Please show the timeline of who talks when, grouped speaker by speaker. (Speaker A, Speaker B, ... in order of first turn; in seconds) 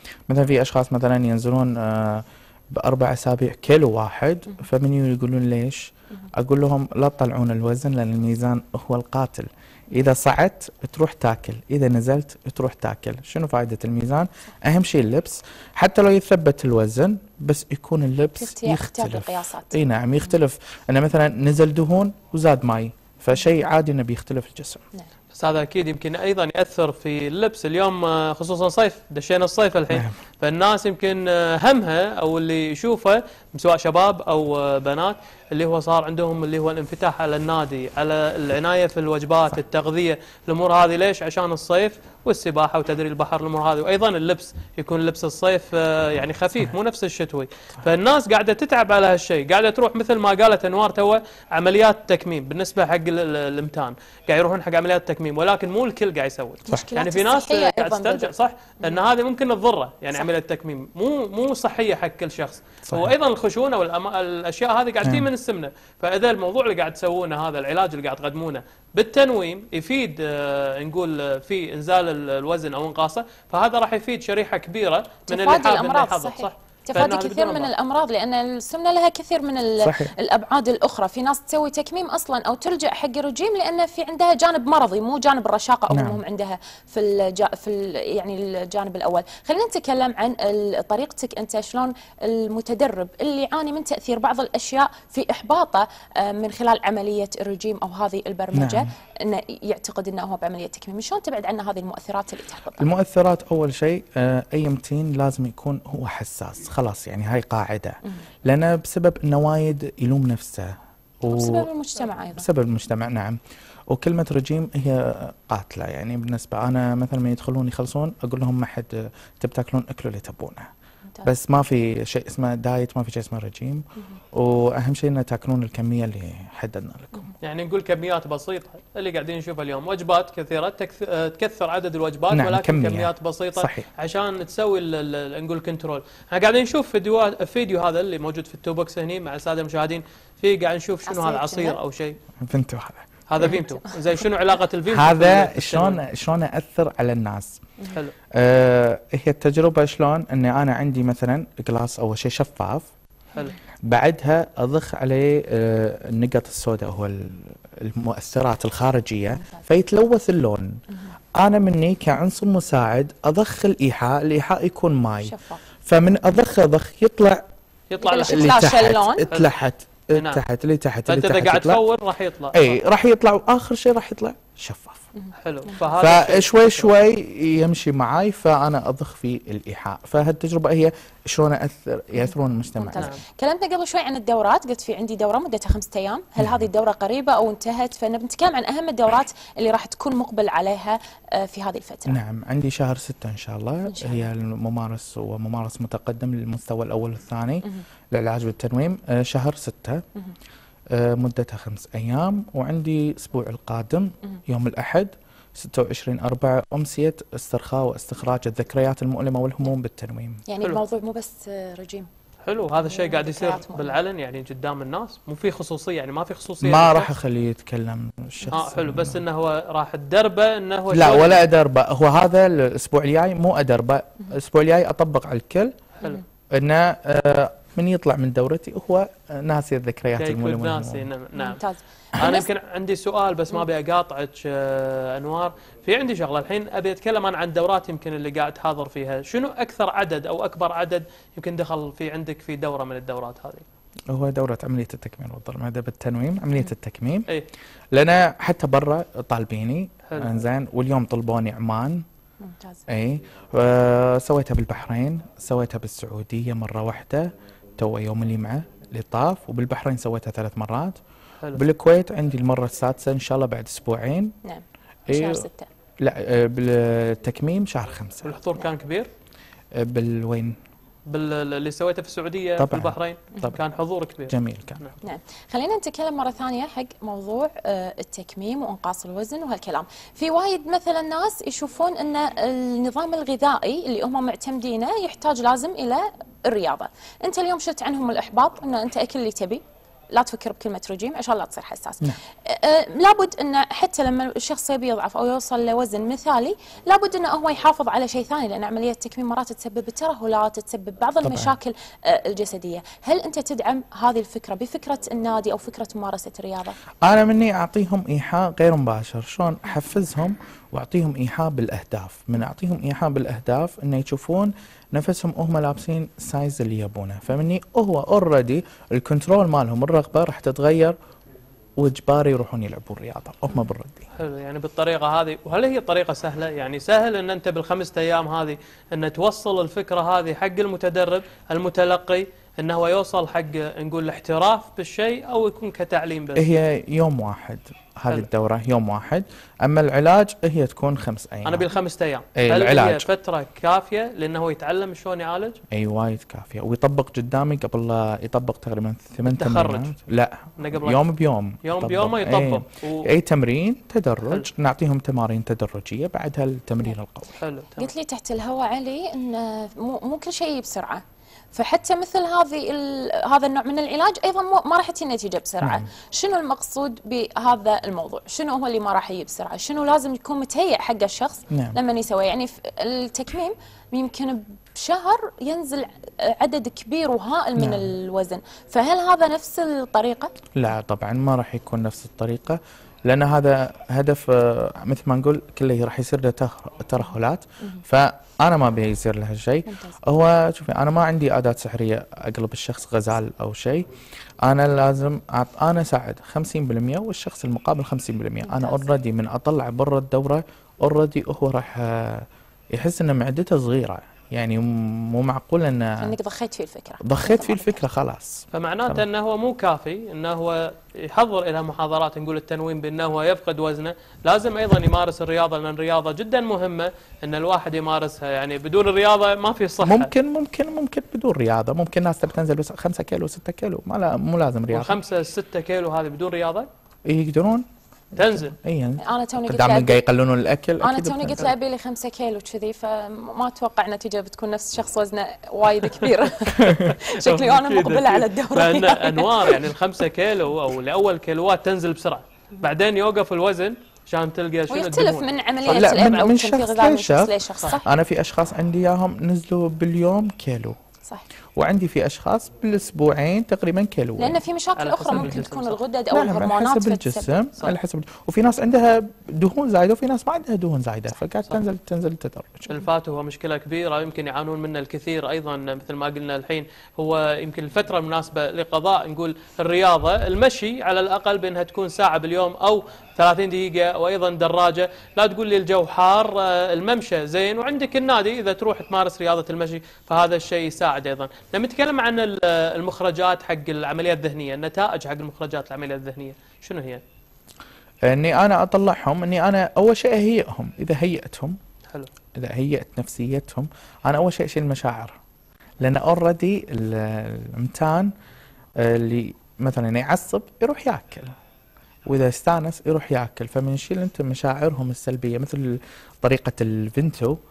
Speaker A: 0.3-24.8, 62.9-63.1, 65.0-65.3, 79.8-80.1, 85.9-86.2, 98.5-98.9, 102.8-111.7, 112.3-113.4, 113.9-120.7, 121.2-127.3, 132.3-133.9, 142.4-143.1, 144.9-147.6, 148.3-152.9, 153.9-160.8, 161.4-167.4, 168.3-171.8, 172.5-175.0, 176.0-183.1, 186.4-186.7, 192.1-200.0, 200.9-210.4, 216.6-219.2, 220.9-225.7, 226.5-231.1, 244.1-247.3, 247.9-252.0, 252.9-261.0, 261.5-264.3, 265.1-265.4, 266.0-268.4, 269.7-270.6, 272.6-273.6, 274.3-274.9, 301.2-301.5, 307.0-320.9, 321.8-324.1, 336.4-341.6, 342.4-343.1, 345.7-357.3, 371.5-371.8, 377.6-377.9, 380.5-393.9, 394.4-406.1, 407.0-409.0, 419.8-425.0, 427.1-431.5, 436.6-436.9, 445.6-450.8, 451.5-454.4, 455.1-455.4, 456.1-462.7, 488.1-491.6, 492.4-495.2, 495.8-498.1, 498.8-501.3, 502.1-507.4
Speaker B: 18.4-19.8, 56.7-59.0, 75.3-102.9, 111.2-112.4, 141.1-141.8, 143.4-144.2, 165.2-165.6, 168.0-169.3, 175.1-176.0, 182.8-192.2, 193.9-194.3, 210.5-212.1, 212.8-214.0, 231.4-232.5, 252.4-252.8, 264.4-265.7, 275.0-289.6, 290.1-306.8, 357.8-361.0, 361.5-380.3, 389.7-390.0, 398.4-398.9, 406.0-407.8, 429.0-430.0, 430.8-439.6, 444.7-447.9, 454.2-457.5
Speaker C: 25.4-77.7, 127.4-142.2, 143.3-146.0, 167.9-168.6, 170.1-170.4, 171.1-172.8, 175.4-176.9, 182.9-183.2, 212.4-217.1, 218.5-221.5, 230.2-231.6, 232.2-243.6, 268.2-269.1, 271.1-274.9, 324.1-336.6, 341.4-345.6, 349.2-349.9, 350.6-351.0, 351.6-353.1, 357.4-357.9, 408.5-420.1, 424.7-426.7, 428.1-428.5, 437.2-445.2, 454.8-455.8, 462.7-487.0